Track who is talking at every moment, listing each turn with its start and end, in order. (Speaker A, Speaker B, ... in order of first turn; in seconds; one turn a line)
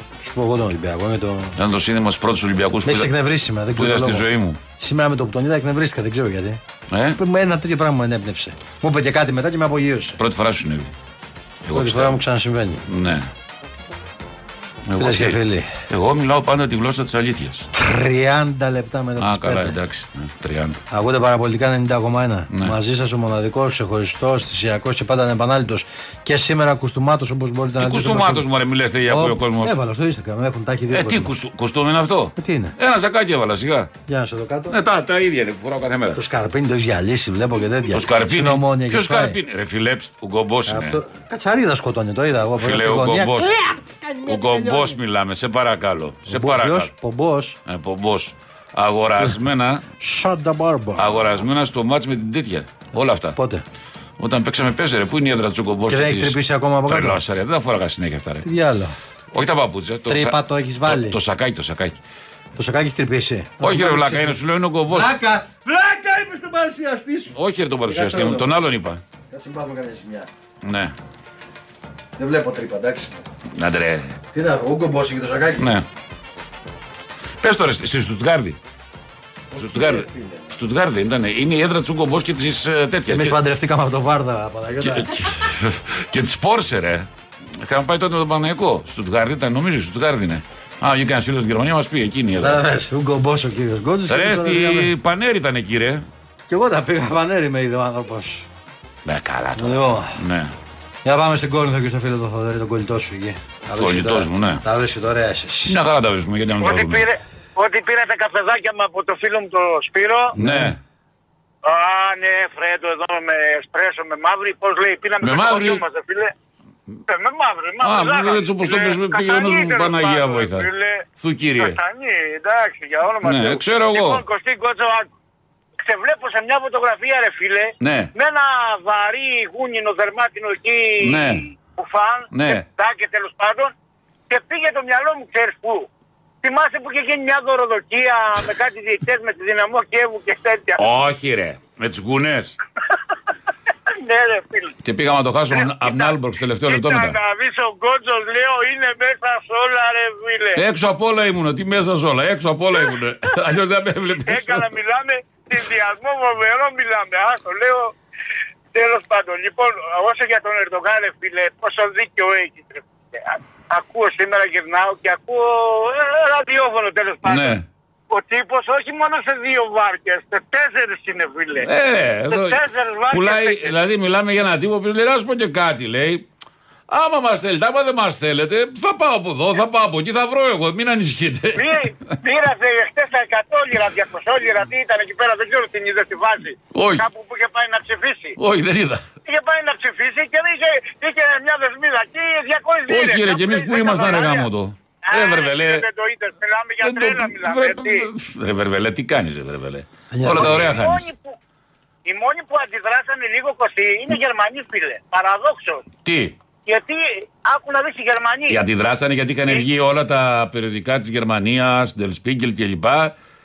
Speaker A: 0.2-1.6
Speaker B: 1.6-3.1
Speaker A: 2.8-4.3
Speaker B: 3.7-4.6
Speaker A: 4.8-6.6
Speaker B: 6.9-7.2
Speaker A: 7.1-10.2
Speaker B: 10.2-10.9
Speaker B: 11.6-12.2
Speaker A: 11.7-12.8
Speaker B: 12.9-13.3
Speaker B: 14.9-17.7
Speaker A: 15.0-15.7
Speaker A: 17.7-19.8
Speaker B: 19.2-20.8
Speaker A: 20.9-28.5
Speaker B: 27.8-29.8
Speaker A: 29.0-31.3
Speaker B: 30.9-33.9
Speaker A: 32.4-32.8
Speaker A: 34.1-34.8
Speaker B: 34.7-36.2
Speaker A: 36.1-39.4
Speaker B: 37.9-41.0
Speaker A: 40.7-45.0
Speaker B: 42.6-43.5
Speaker B: 44.3-46.9
Speaker A: 46.3-47.6
Speaker B: 47.7-49.9
Speaker A: 50.0-51.3
Speaker B: 51.0-53.4
Speaker A: 53.3-53.6
Speaker B: 54.2-56.4
Speaker A: 55.9-57.2
Speaker B: 56.9-58.5
Speaker A: 58.4-59.0
Speaker B: 59.3-62.0
Speaker A: 60.1-61.2
Speaker A: 62.5-68.5
Speaker B: 63.6-65.1
Speaker B: 67.3-69.0
Speaker A: 69.3-70.3
Speaker B: 70.6-70.9
Speaker A: 72.2-73.2
Speaker B: 73.5-74.2
Speaker A: 74.3-75.8
Speaker B: 75.6-75.8
Speaker B: 77.4-78.6
Speaker A: 79.5-80.5
Speaker B: 79.6-83.4
Speaker A: 83.1-85.3
Speaker B: 84.8-87.1
Speaker B: 87.6-92.6
Speaker A: 92.4-94.9
Speaker B: 94.1-96.0
Speaker A: 96.5-98.5
Speaker B: 99.0-100.5
Speaker A: 99.5-100.2
Speaker A: 101.0-105.8
Speaker B: 103.8-104.6
Speaker B: 105.7-107.0
Speaker C: 106.6-110.3
Speaker A: 110.3-110.7
Speaker B: 110.4-110.8
Speaker C: 111.6-116.3
Speaker B: 115.2-115.8
Speaker C: 117.1-121.0
Speaker B: 117.8-120.7
Speaker B: 121.2-121.8
Speaker C: 121.6-125.1
Speaker B: 123.2-124.2
Speaker C: 125.8-133.7
Speaker B: 127.8-128.1
Speaker B: 131.0-131.4
Speaker B: 132.3-132.6
Speaker C: 134.3-135.9
Speaker C: 136.4-140.8
Speaker B: 140.8-142.6
Speaker C: 143.9-144.8
Speaker B: 144.8-147.2
Speaker C: 145.5-146.1
Speaker C: 146.7-150.6
Speaker B: 150.6-154.7
Speaker C: 154.2-157.9
Speaker C: 158.7-167.6
Speaker B: 167.2-167.6
Speaker C: 168.1-171.7
Speaker B: 171.6-176.3
Speaker C: 172.3-173.8
Speaker B: 176.9-181.7
Speaker C: 181.5-188.4
Speaker B: 186.7-187.0
Speaker B: 188.4-189.0
Speaker C: 189.2-194.5
Speaker B: 192.9-195.8
Speaker C: 195.1-198.1
Speaker B: 196.8-201.1
Speaker A: 200.1-200.7
Speaker C: 200.3-201.3
Speaker C: 202.0-205.8
Speaker B: 206.0-206.3
Speaker C: 206.7-208.6
Speaker B: 208.5-213.1